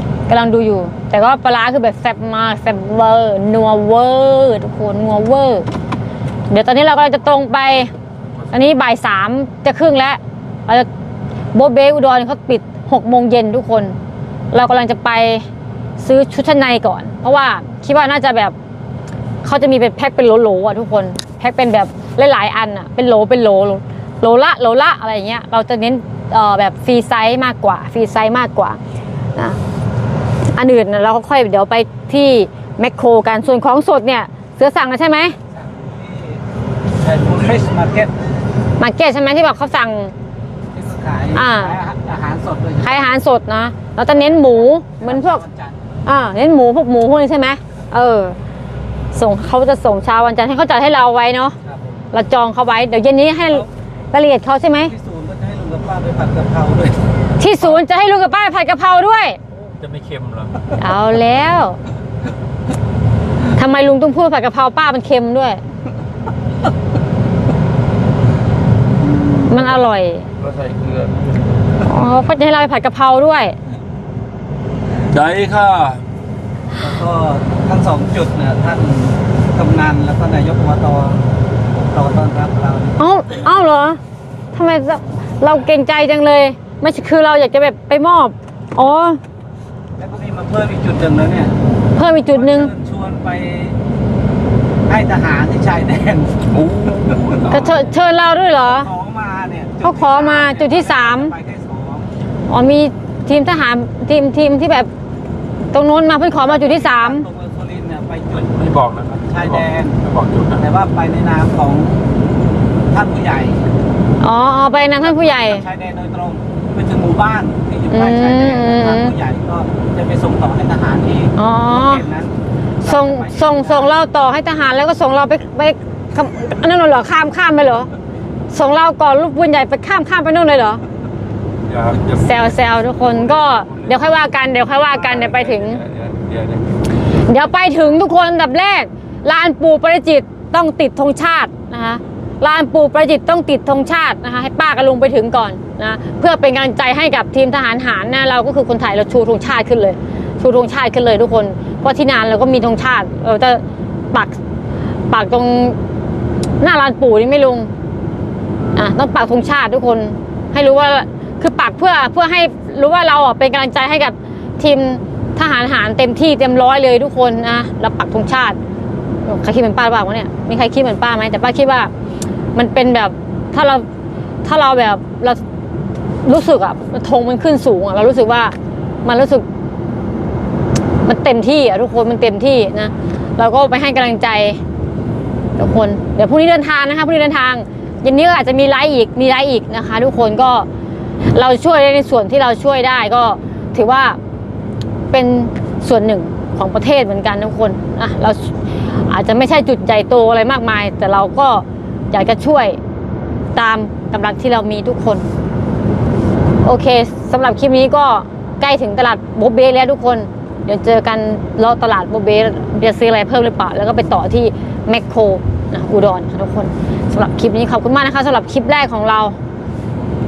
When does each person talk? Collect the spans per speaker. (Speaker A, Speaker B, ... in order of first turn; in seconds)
Speaker A: 0.3-5.7, 6.5-7.9, 8.5-10.9, 11.5-13.9, 14.5-15.5, 16.0-18.5, 19.4-28.8, 30.5-35.4, 38.8-40.1, 41.3-41.8, 42.8-45.4, 46.0-48.4, 49.1-51.5, 52.1-54.9, 57.4-59.4, 60.8-61.8, 63.5-65.6, 69.5-70.3, 71.8-73.5, 83.0-84.0, 84.5-89.2, 91.9-92.7, 97.5-98.9, 99.8-101.3, 102.5-104.9, 105.7-107.2, 114.2-115.6, 117.9-119.1, 121.3-122.0, 122.8-127.9, 128.5-130.8, 132.2-135.8, 137.1-154.4, 155.1-155.8, 156.6-157.7, 158.7-168.6, 169.2-171.9, 172.5-173.8, 174.4-175.4, 176.2-179.4, 181.0-184.6, 185.6-190.7, 191.3-194.2, 195.1-202.8, 203.5-205.2, 206.6-219.3
Speaker B: 35.5-36.4, 37.0-38.1, 40.7-43.1, 44.1-45.8, 51.6-51.9, 54.8-57.0, 76.8-83.0, 90.0-91.5, 92.3-93.8, 94.9-96.5, 98.6-102.1, 106.4-108.6, 109.3-110.0, 110.5-112.0, 112.9-113.7, 114.7-123.9
Speaker C: 59.7-60.7, 70.4-71.5, 75.1-76.0, 96.5-97.7, 108.5-110.6, 131.7-132.4, 133.0-134.0, 135.0-136.8